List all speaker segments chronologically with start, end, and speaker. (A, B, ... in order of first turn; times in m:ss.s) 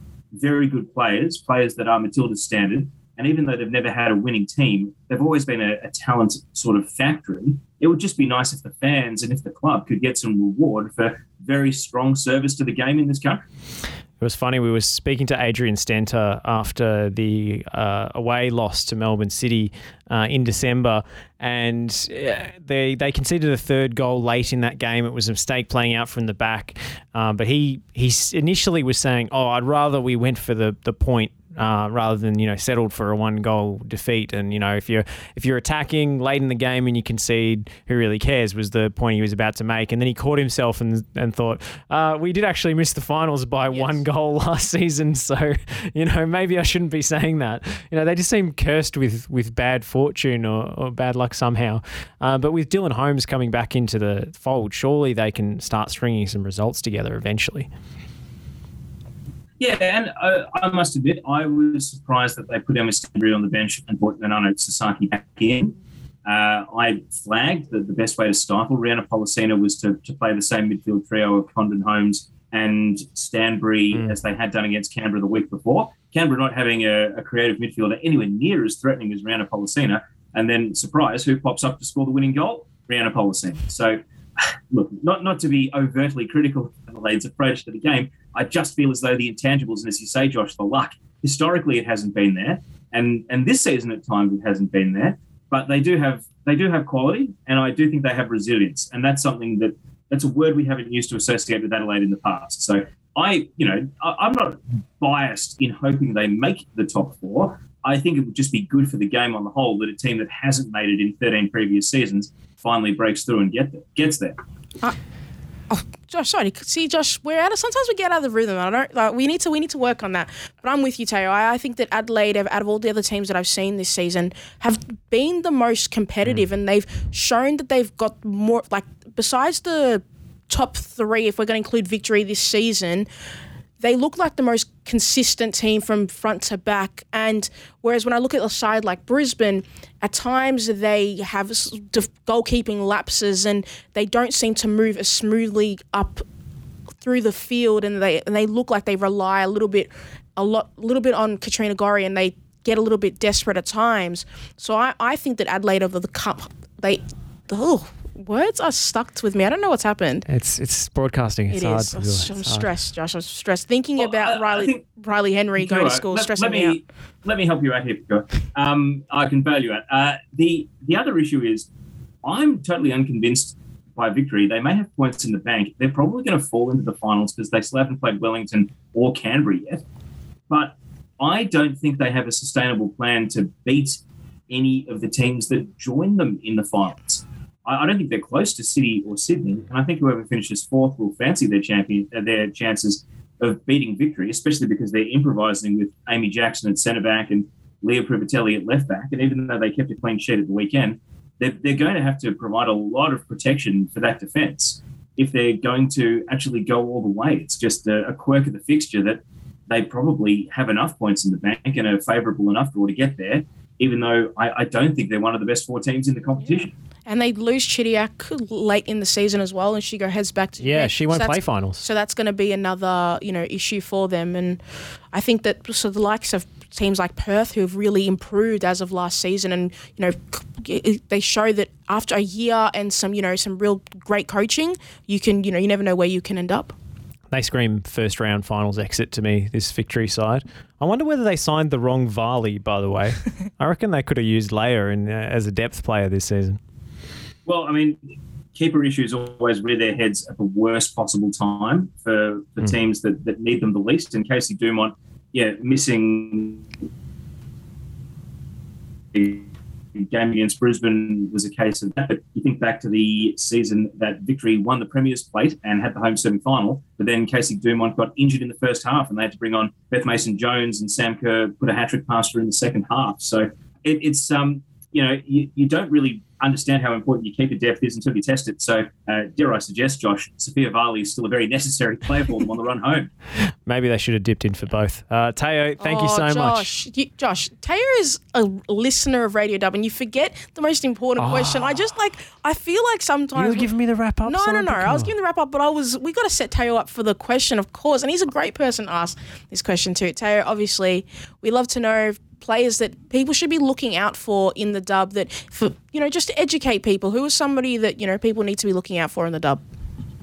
0:00.3-0:13.4 A
0:14.2-0:57.7 B
0:59.6-1:54.4 A
1:55.7-2:13.1 C
2:13.8-2:26.2 C
2:27.0-2:40.3 C
2:40.3-2:42.7 B
2:41.5-2:46.8 C
2:44.0-2:44.8 A
2:45.6-2:51.7 A
2:52.2-2:59.8 A
3:00.5-3:36.7 A
3:37.1-3:44.6 C
3:40.6-3:41.8 B
3:45.1-3:56.7 C
3:57.3-4:06.6 B
4:07.4-4:08.0 A
4:08.5-4:16.6 A
4:19.1-4:43.1 A
4:43.6-4:46.7 B
4:45.8-4:53.7 C
4:51.2-4:51.7 B
4:53.3-4:55.1 B
4:54.2-5:09.6 C